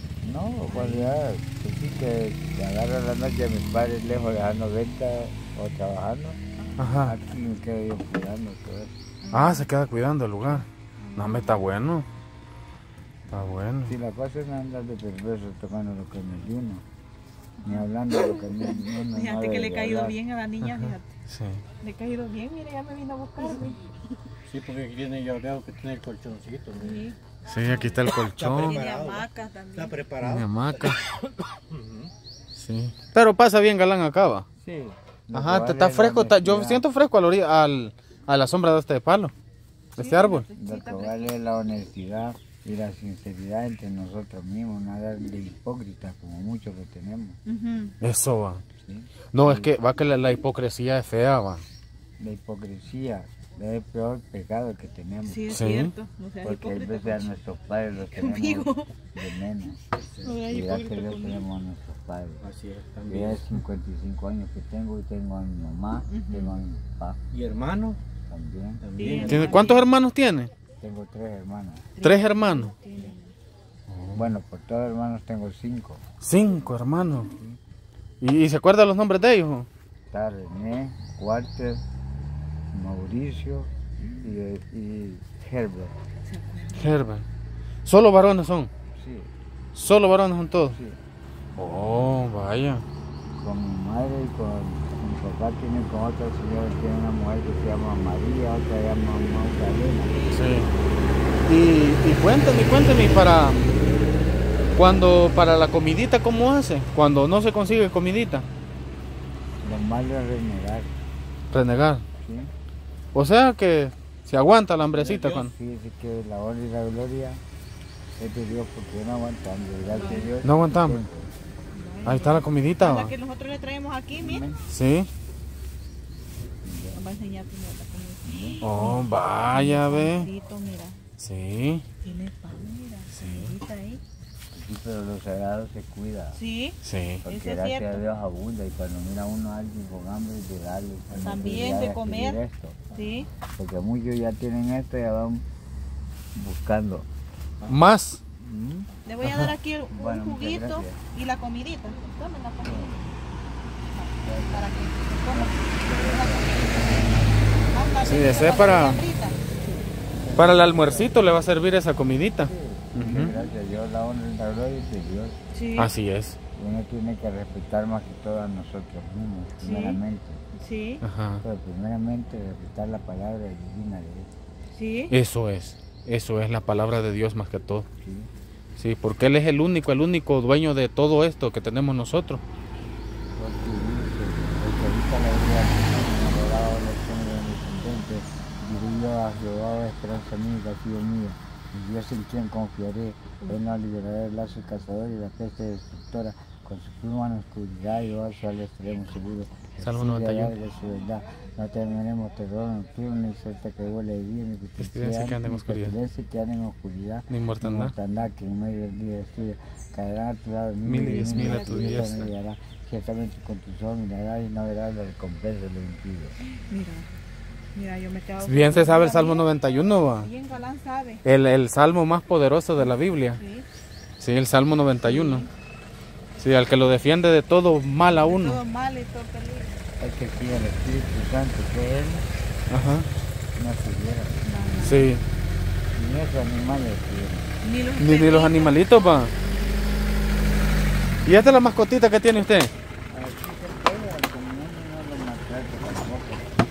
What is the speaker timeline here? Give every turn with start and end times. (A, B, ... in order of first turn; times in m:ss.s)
0:00.2-0:06.4 A
0:00.7-0:01.1 B
0:06.6-0:06.9 B
0:06.8-0:07.2 C
0:07.0-0:09.0 A
0:09.2-0:09.7 B
0:09.3-0:12.0 C
0:11.0-0:11.6 B
0:13.3-0:13.9 C
0:13.3-0:16.8 A
0:17.6-0:21.1 B
0:17.6-0:20.2 A
0:20.6-0:21.6 C
0:21.8-0:23.9 B
0:24.4-0:27.0 D
0:26.8-0:28.0 B
0:27.4-0:28.8 C
0:28.1-0:32.1 D
0:28.6-0:29.9 B
0:30.2-0:31.1 C
0:32.6-0:34.5 C
0:34.6-0:36.8 A
0:35.3-0:39.3 C
0:40.0-0:40.5 C
0:40.0-0:41.3 B
0:40.6-0:47.4 A
0:47.4-0:48.0 B
0:48.0-0:48.6 C
0:48.8-0:49.7 A
0:49.3-0:51.6 C
0:52.2-0:55.6 A
0:55.2-0:57.3 B
0:55.5-0:55.9 C
0:56.4-0:59.8 A
0:58.0-0:58.9 B
0:59.9-1:00.4 D
1:00.2-1:01.4 B
1:00.5-1:02.4 A
1:02.4-1:03.5 D
1:03.0-1:07.2 A
1:06.1-1:06.5 B
1:07.3-1:08.0 D
1:08.3-1:08.8 A
1:08.8-1:09.7 D
1:09.0-1:09.8 B
1:09.2-1:10.5 C
1:10.8-1:11.9 A
1:12.0-1:13.3 B
1:12.0-1:12.7 C
1:13.9-1:14.3 C
1:14.1-1:17.6 A
1:16.2-1:17.3 C
1:18.2-1:19.7 C
1:20.1-1:21.8 A
1:22.7-1:26.0 A
1:26.2-1:27.0 B
1:26.7-1:27.2 C
1:27.8-1:28.7 C
1:28.9-1:29.3 A
1:29.8-1:30.8 C
1:30.7-1:31.0 A
1:31.6-1:32.8 C
1:33.4-1:40.2 A
1:40.0-1:40.4 B
1:40.3-1:40.7 C
1:41.4-1:43.8 C
1:44.8-1:48.4 C
1:49.6-1:50.9 A
1:51.5-1:52.0 C
1:52.2-1:52.5 A
1:53.1-1:55.5 C
1:54.9-1:55.5 D
1:55.3-1:57.4 A
1:58.2-2:01.3 A
1:59.9-2:00.3 B
2:00.4-2:01.0 C
2:01.7-2:04.4 B
2:02.0-2:03.1 C
2:04.1-2:04.6 A
2:04.7-2:05.1 C
2:06.6-2:07.0 A
2:07.0-2:11.0 B
2:08.2-2:08.6 A
2:08.6-2:10.3 C
2:11.2-2:11.8 C
2:12.0-2:14.0 B
2:13.1-2:13.6 C
2:14.5-2:16.4 A
2:16.3-2:18.0 B
2:16.8-2:17.2 C
2:17.2-2:25.4 A
2:21.1-2:22.4 B
2:22.9-2:23.3 B
2:26.3-2:27.1 A
2:27.7-2:28.2 C
2:28.4-2:28.9 A
2:29.0-2:33.0 B
2:29.2-2:29.5 C
2:29.9-2:31.0 A
2:32.6-2:33.1 A
2:33.9-2:39.4 B
2:34.2-2:34.6 A
2:35.3-2:37.4 A
2:38.0-2:39.0 C
2:39.5-2:41.5 A
2:40.4-2:43.3 C
2:42.4-2:45.4 A
2:43.2-2:43.5 B
2:45.5-2:45.9 B
2:45.8-2:46.4 C
2:46.6-2:50.4 A
2:49.6-2:50.0 B
2:50.5-2:51.0 B
2:51.0-2:51.4 C
2:51.4-2:54.3 A
2:54.7-2:55.1 B
2:55.1-2:57.9 C
2:58.0-2:58.3 A
2:58.8-3:02.4 C
3:03.4-3:36.4 A
3:07.7-3:08.0 B
3:19.8-3:20.6 C
3:24.8-3:26.0 C
3:27.3-3:27.9 C
3:30.8-3:32.3 C
3:31.2-3:32.3 B
3:36.5-3:37.1 B
3:37.8-3:41.2 B
3:38.4-3:40.3 C
3:41.2-3:43.4 C
3:43.4-3:43.6 B
3:44.2-3:45.4 C
3:45.0-3:45.5 B
3:46.4-3:48.6 C
3:48.1-3:49.8 B
3:50.0-3:52.2 A
3:52.7-3:53.1 C
3:53.6-3:54.6 A
3:54.4-3:55.1 B
3:54.8-3:55.2 C
3:55.9-3:57.6 A
3:57.6-3:59.6 B
3:58.0-3:59.3 C
4:01.2-4:02.7 C
4:03.1-4:06.5 A